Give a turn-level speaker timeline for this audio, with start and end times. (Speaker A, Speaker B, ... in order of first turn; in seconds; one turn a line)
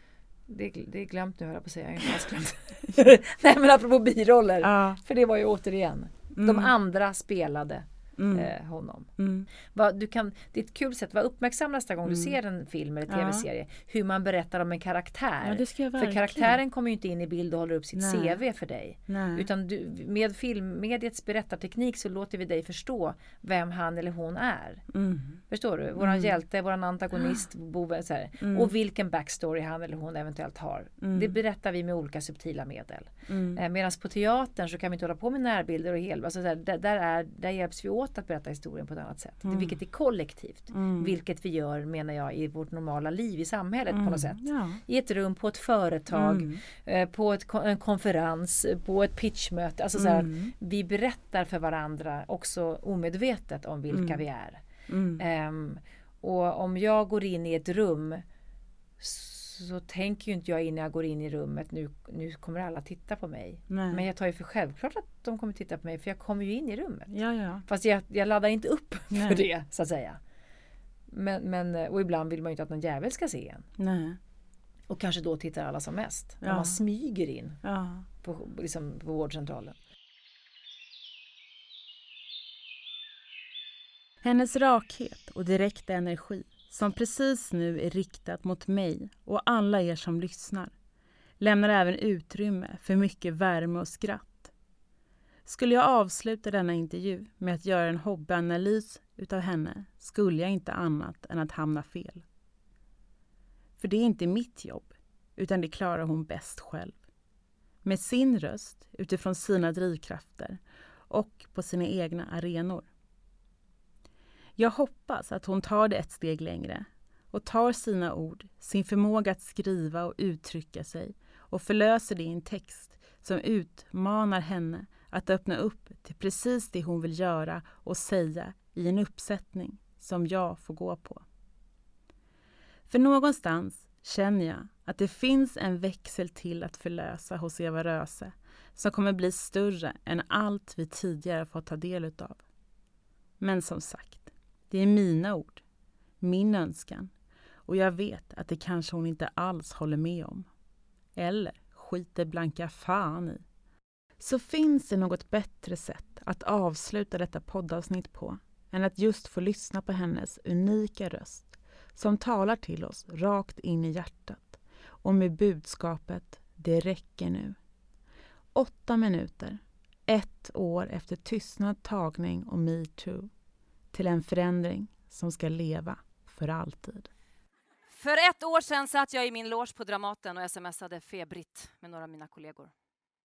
Speaker A: 0.5-9.1
Speaker B: 4.6-5.0
Speaker B: 6.3-6.7
Speaker B: 8.2-8.5
Speaker B: 9.2-9.5
Speaker A: 9.6-24.9
Speaker B: 12.1-12.3
Speaker B: 13.1-13.5
Speaker B: 15.4-16.6
Speaker B: 17.9-18.4
Speaker B: 19.1-19.5
Speaker B: 24.9-25.4
Speaker A: 25.5-54.6
Speaker B: 26.0-26.3
Speaker B: 28.4-28.7
Speaker B: 31.0-31.4
Speaker B: 33.3-33.6
Speaker B: 39.5-39.8
Speaker B: 40.7-41.1
Speaker B: 43.9-44.8
Speaker B: 46.1-46.6
Speaker B: 50.0-50.5
Speaker B: 53.9-54.2
Speaker B: 54.9-55.2
Speaker A: 55.2-58.2
Speaker A: 59.0-67.1
Speaker B: 63.7-64.0
Speaker B: 67.1-67.7
Speaker A: 67.7-70.2
Speaker B: 69.1-69.5
Speaker A: 71.1-73.7
Speaker B: 73.8-74.2
Speaker A: 74.9-77.6
Speaker B: 76.4-76.8
Speaker B: 77.6-78.1
Speaker A: 78.2-79.8
Speaker B: 84.2-90.7
Speaker B: 91.4-94.5
Speaker B: 95.5-102.2
Speaker B: 103.8-107.0
Speaker B: 107.8-112.9
Speaker B: 114.6-131.2
Speaker B: 132.9-142.4
Speaker B: 143.4-145.6
Speaker B: 146.2-147.1
Speaker B: 147.7-150.5
Speaker B: 151.2-153.4
Speaker B: 154.2-167.6
Speaker B: 168.5-173.3
Speaker B: 173.9-177.1
Speaker C: 177.9-182.7